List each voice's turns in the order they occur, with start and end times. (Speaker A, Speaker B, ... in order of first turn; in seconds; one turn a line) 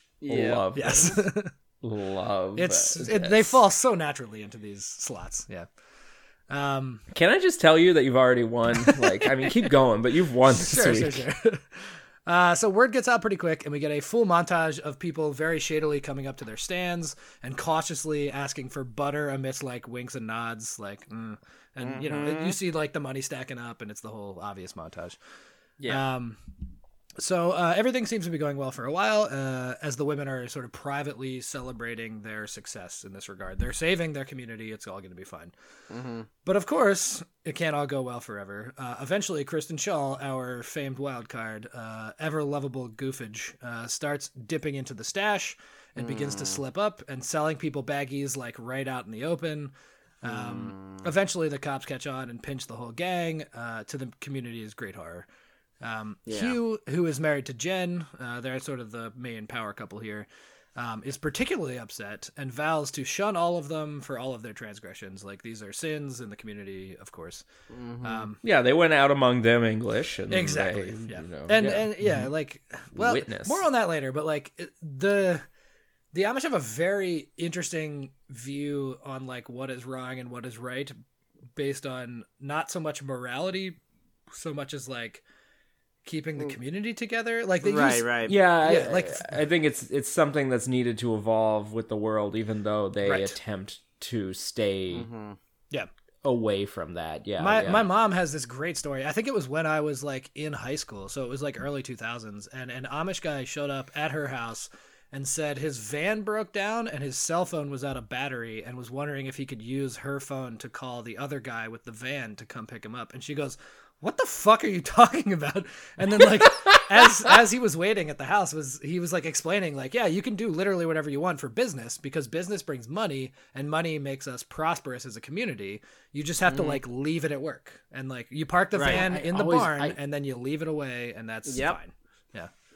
Speaker A: 0.2-1.2
Speaker B: 0.3-1.2
Speaker C: 0.8-1.5
Speaker B: 1.8-3.6
Speaker C: 2.6-5.7
Speaker C: 6.5-7.0
Speaker B: 7.1-11.3
Speaker C: 8.8-9.7
Speaker C: 10.5-25.2
Speaker A: 21.8-22.6
Speaker A: 25.8-26.0
Speaker C: 25.9-26.4
Speaker C: 27.2-35.5
Speaker A: 35.9-36.3
Speaker C: 36.4-55.3
Speaker A: 46.0-46.6
Speaker A: 50.2-51.1
Speaker C: 55.8-67.5
Speaker A: 56.3-56.6
Speaker A: 67.7-68.3
Speaker C: 68.0-68.4
Speaker B: 68.4-72.3
Speaker C: 70.3-75.5
Speaker B: 73.0-73.6
Speaker C: 76.1-81.0
Speaker C: 81.6-83.8
Speaker C: 84.3-85.2
Speaker C: 86.0-88.1
Speaker A: 87.6-88.4
Speaker B: 88.2-95.1
Speaker C: 88.6-89.4
Speaker C: 93.0-93.4
Speaker A: 94.9-95.4
Speaker B: 96.2-97.9
Speaker C: 97.4-132.5
Speaker A: 126.5-126.8
Speaker A: 128.8-129.0
Speaker B: 128.8-130.0
Speaker A: 131.5-131.8